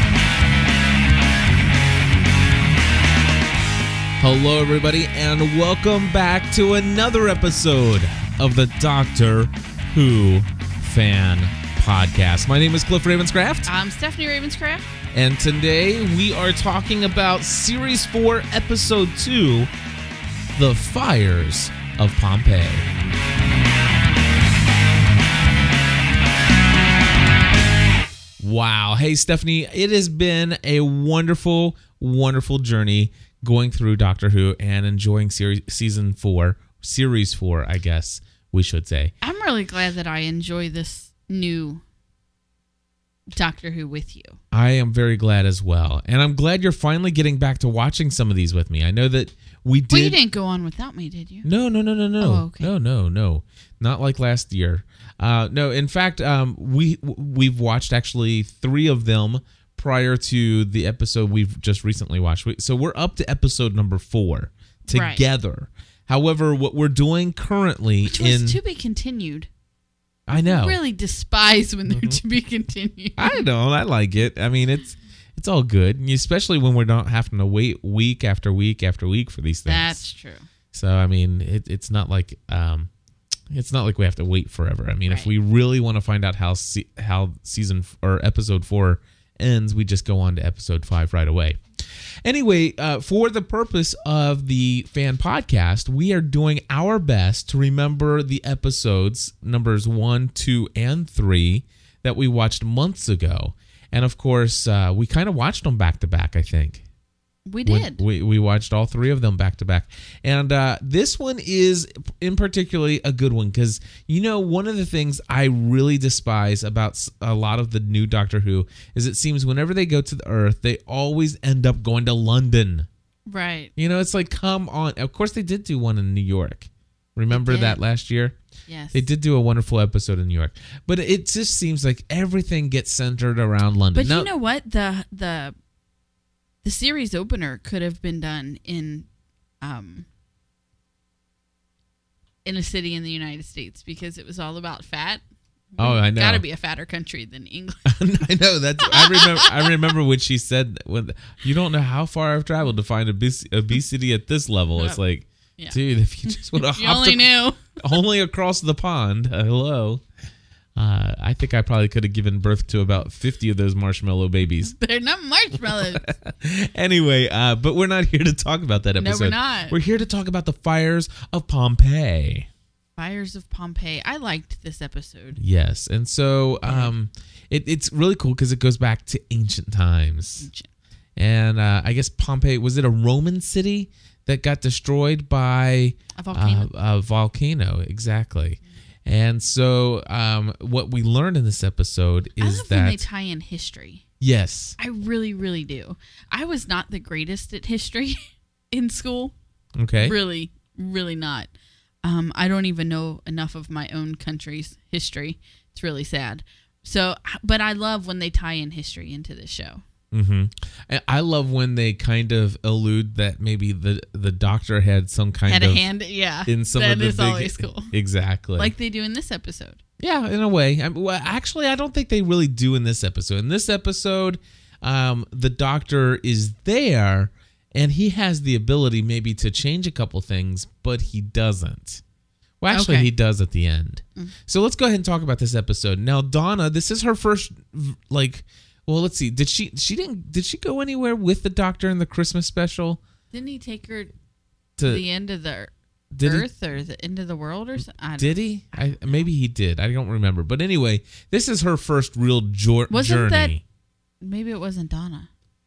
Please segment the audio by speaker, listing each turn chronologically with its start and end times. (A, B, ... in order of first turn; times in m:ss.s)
0:04.2-0:13.7 A
0:13.6-0:14.9 B
0:15.1-0:19.7 A
0:20.5-0:22.9 A
0:28.4-0:39.1 A
0:39.2-0:41.8 B
0:43.3-0:44.4 B
0:44.5-0:50.2 A
0:49.9-0:51.5 B
0:51.4-1:08.6 A
0:52.2-0:52.7 B
1:04.9-1:05.2 B
1:08.1-1:09.5 B
1:10.3-1:10.8 A
1:10.3-1:13.4 B
1:11.9-1:12.2 A
1:13.2-1:20.0 A
1:19.7-1:20.4 B
1:20.7-1:22.9 A
1:23.5-1:31.6 A
1:32.2-1:46.8 A
1:47.4-1:48.0 B
1:47.6-2:02.9 A
2:03.3-2:03.7 B
2:03.8-2:08.4 A
2:07.3-2:07.8 B
2:08.7-2:09.0 B
2:08.9-2:14.3 A
2:13.9-2:15.6 B
2:16.6-2:19.1 B
2:19.6-2:20.1 B
2:22.4-2:25.2 B
2:25.7-2:27.9 B
2:25.8-2:26.4 A
2:27.9-2:40.0 A
2:28.8-2:29.9 B
2:35.6-2:37.8 B
2:40.8-2:44.7 A
2:44.6-2:46.1 B
2:45.7-2:52.5 A
2:49.0-2:49.8 B
2:53.0-2:55.4 B
2:55.4-3:00.5 A
2:56.6-2:56.9 B
3:00.4-3:00.7 B
3:01.2-3:13.0 A
3:06.2-3:06.7 B
3:12.4-3:14.0 B
3:14.2-3:14.8 A
3:14.8-3:18.2 B
3:18.7-3:19.3 B
3:19.8-3:20.1 A
3:20.0-3:21.5 B
3:22.0-3:29.8 B
3:30.1-3:35.9 A
3:35.5-3:37.9 B
3:36.4-3:38.7 A
3:38.6-3:39.8 B
3:40.0-3:52.0 A
3:52.6-4:03.0 A
3:52.7-3:53.1 B
4:03.3-4:04.1 B
4:04.8-4:05.0 A
4:04.8-4:05.7 B
4:06.1-4:06.4 A
4:06.2-4:09.0 B
4:08.2-4:13.6 A
4:12.9-4:13.5 B
4:14.2-4:15.3 B